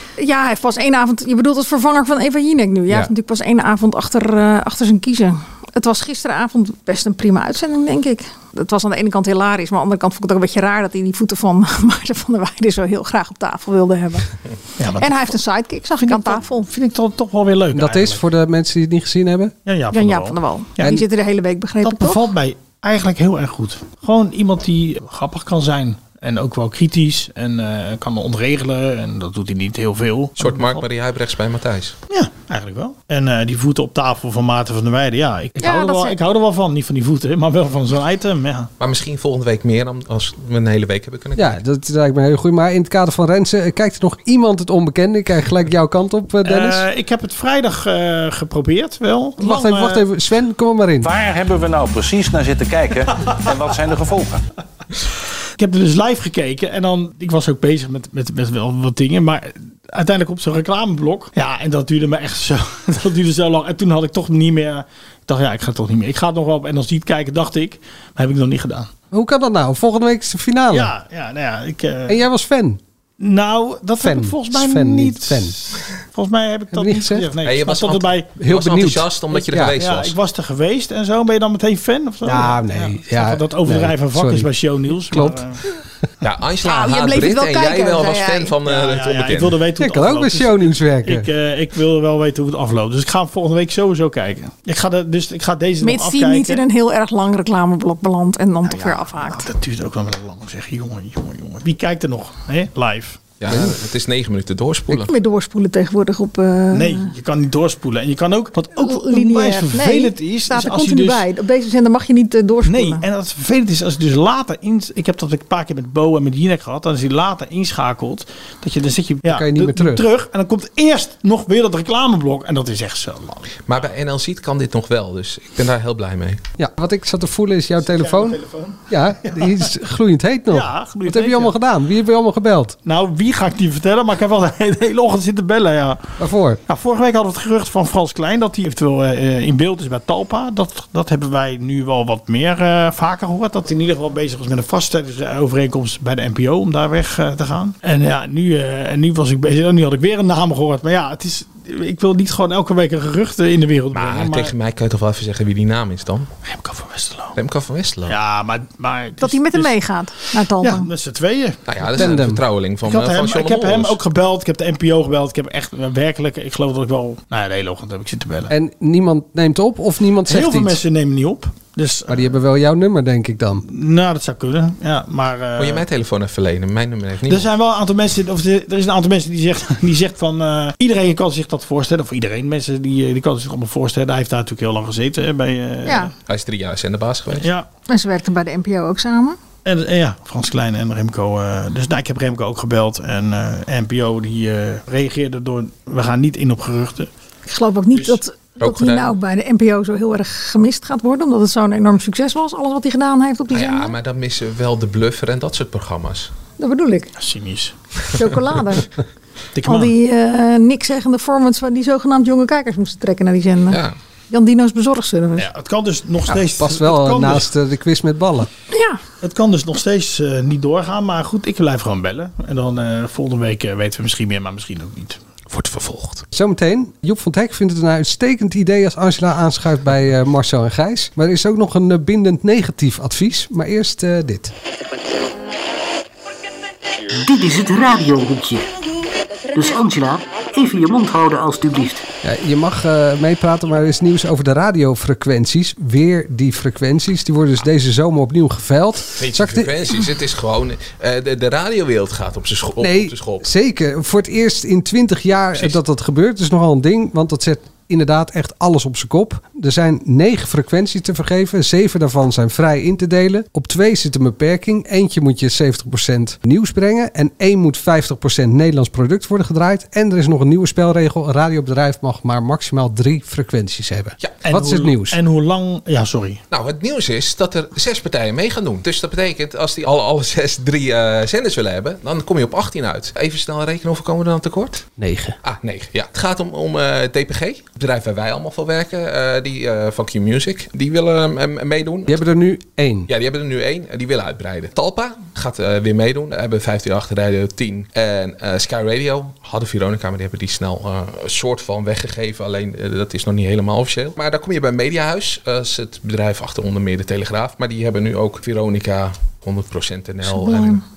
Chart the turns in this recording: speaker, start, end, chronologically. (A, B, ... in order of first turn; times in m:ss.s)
0:00.2-0:14.3 A
0:14.8-0:15.4 B
0:15.0-0:16.7 A
0:16.0-0:18.2 B
0:17.7-0:19.5 C
0:19.6-0:21.0 B
0:19.9-0:22.2 A
0:21.8-0:30.7 B
0:30.4-0:31.9 D
0:32.1-0:38.7 B
0:35.6-0:36.2 A
0:38.8-0:41.6 D
0:41.4-0:46.8 C
0:46.4-0:50.0 B
0:49.4-0:51.1 C
0:51.0-0:54.4 E
0:55.6-1:08.9 B
1:09.1-1:10.9 C
1:10.7-1:12.2 B
1:12.1-1:12.8 C
1:13.2-1:18.3 B
1:14.0-1:15.6 C
1:16.7-1:17.3 C
1:17.4-1:20.1 D
1:18.4-1:19.8 C
1:19.4-1:25.6 B
1:22.2-1:25.4 C
1:26.2-1:29.6 D
1:26.6-1:28.5 A
1:28.6-1:36.6 B
1:29.8-1:31.3 C
1:35.8-1:39.5 A
1:39.2-1:43.3 B
1:43.4-1:45.1 D
1:44.9-1:47.1 A
1:46.7-1:51.2 B
1:48.8-1:53.0 A
1:52.6-2:03.6 B
1:59.2-2:00.1 C
2:03.6-2:06.4 D
2:06.6-2:12.7 C
2:07.8-2:09.6 B
2:10.5-2:11.5 B
2:12.8-2:34.5 B
2:16.2-2:16.6 C
2:33.9-2:36.3 D
2:36.4-2:37.4 B
2:37.3-2:38.2 D
2:38.1-2:39.8 B
2:39.2-2:40.9 A
2:40.6-2:42.1 B
2:41.7-2:44.0 D
2:41.9-2:42.4 C
2:42.8-2:48.5 B
2:48.5-2:50.8 C
2:50.3-2:52.3 B
2:52.1-2:53.6 C
2:53.6-2:55.8 B
2:55.6-2:57.5 D
2:57.3-3:06.1 B
3:05.8-3:06.1 A
3:06.3-3:07.5 D
3:07.4-3:07.7 B
3:07.9-3:09.4 A
3:09.6-3:17.1 B
3:17.5-3:23.9 A
3:17.9-3:18.2 B
3:18.6-3:19.2 D
3:23.5-3:26.3 D
3:26.6-3:27.1 A
3:27.2-3:27.7 B
3:28.1-3:28.9 A
3:29.5-3:29.9 B
3:29.6-3:33.8 A
3:33.7-3:33.9 D
3:34.3-3:35.4 A
3:35.4-3:37.5 B
3:36.3-3:38.5 C
3:38.7-3:39.0 A
3:39.2-3:45.2 B
3:45.5-3:46.2 D
3:46.3-3:54.5 C
3:57.2-3:58.7 F
3:59.5-4:02.0 F
4:02.2-4:09.7 C
4:09.2-4:13.4 D
4:12.8-4:35.2 C
4:34.4-4:36.4 B
4:36.5-4:44.9 D
4:45.0-4:45.4 C
4:45.4-4:52.2 D
4:52.1-4:53.1 C
4:53.1-5:10.8 D
5:10.2-5:10.8 A